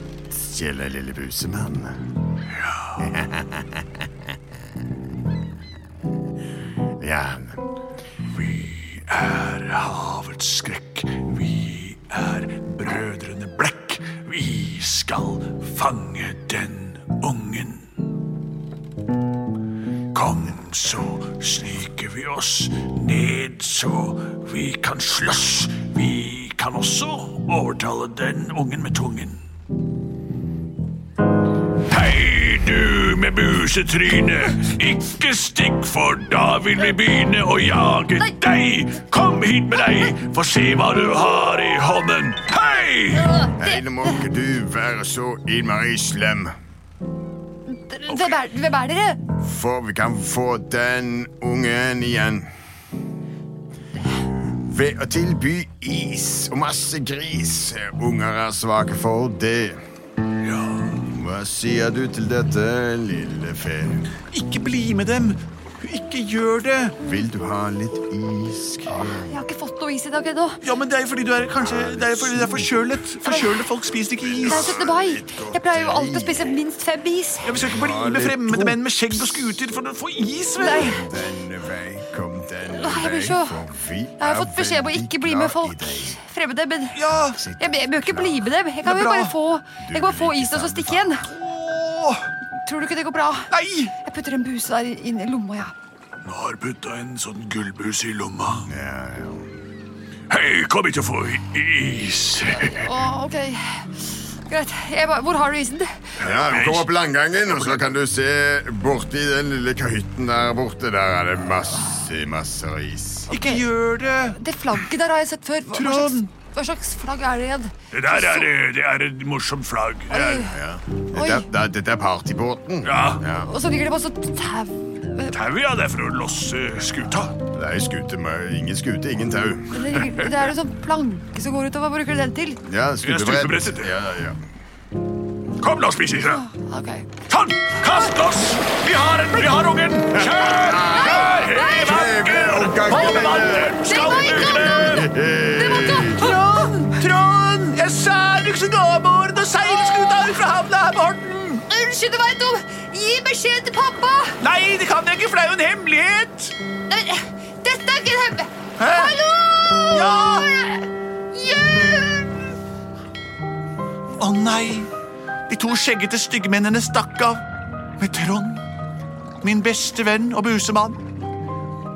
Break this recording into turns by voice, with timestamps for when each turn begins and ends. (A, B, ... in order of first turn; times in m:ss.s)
0:00.3-0:02.0 A
0:02.7-0:03.1 B
0:03.0-0:04.1 A
0:07.0-0:07.6 A
0:08.3-0:17.8 B
0:20.1-0:29.4 B
0:31.9-0:43.4 B
0:43.1-0:44.1 C
0:43.6-0:46.5 A
0:47.7-0:49.3 C
0:48.1-0:48.4 B
0:49.4-0:52.5 A
0:54.6-0:59.8 A
1:00.4-1:00.9 B
1:01.0-1:04.1 A
1:04.3-1:07.0 B
1:07.0-1:09.3 A
1:09.2-1:10.6 C
1:10.6-1:14.8 B
1:11.6-1:12.7 A
1:13.2-1:13.6 C
1:14.2-1:16.6 A
1:14.4-1:17.6 C
1:17.4-1:21.0 B
1:17.6-1:19.6 A
1:20.6-1:21.0 C
1:20.8-1:26.2 A
1:22.7-1:23.6 C
1:24.2-1:27.0 C
1:26.9-1:27.4 B
1:27.3-1:28.4 A
1:27.6-1:31.3 C
1:28.8-1:29.3 B
1:29.8-1:31.1 A
1:31.2-1:32.3 B
1:32.6-1:35.7 C
1:33.5-1:33.9 B
1:36.2-1:38.7 B
1:38.7-1:39.5 A
1:40.3-1:42.9 B
1:42.6-1:46.0 C
1:46.2-1:46.9 B
1:46.2-1:53.3 A
1:47.5-1:47.8 B
1:53.3-1:54.4 B
1:53.3-1:53.7 C
1:54.3-1:58.5 C
1:55.7-1:56.3 B
1:57.9-2:00.4 B
2:00.1-2:00.6 C
2:00.4-2:03.5 A
2:01.1-2:01.4 C
2:02.8-2:03.2 B
2:03.4-2:05.4 C
2:05.3-2:07.3 B
2:07.5-2:09.9 A
2:09.7-2:12.6 C
2:12.7-2:14.4 A
2:13.0-2:13.9 B
2:15.6-2:16.4 B
2:16.2-2:17.1 C
2:17.3-2:25.1 B
2:20.2-2:26.2 A
2:20.8-2:22.0 C
2:22.8-2:23.3 C
2:23.8-2:25.1 C
2:25.6-2:26.8 C
2:26.0-2:31.7 B
2:29.6-2:30.1 C
2:31.7-2:34.4 C
2:34.4-2:36.6 B
2:36.9-2:42.5 C
2:38.8-2:39.2 B
2:39.9-2:40.5 B
2:44.2-2:44.9 B
2:45.5-2:47.4 B
2:48.0-2:48.6 B
2:49.4-2:51.0 B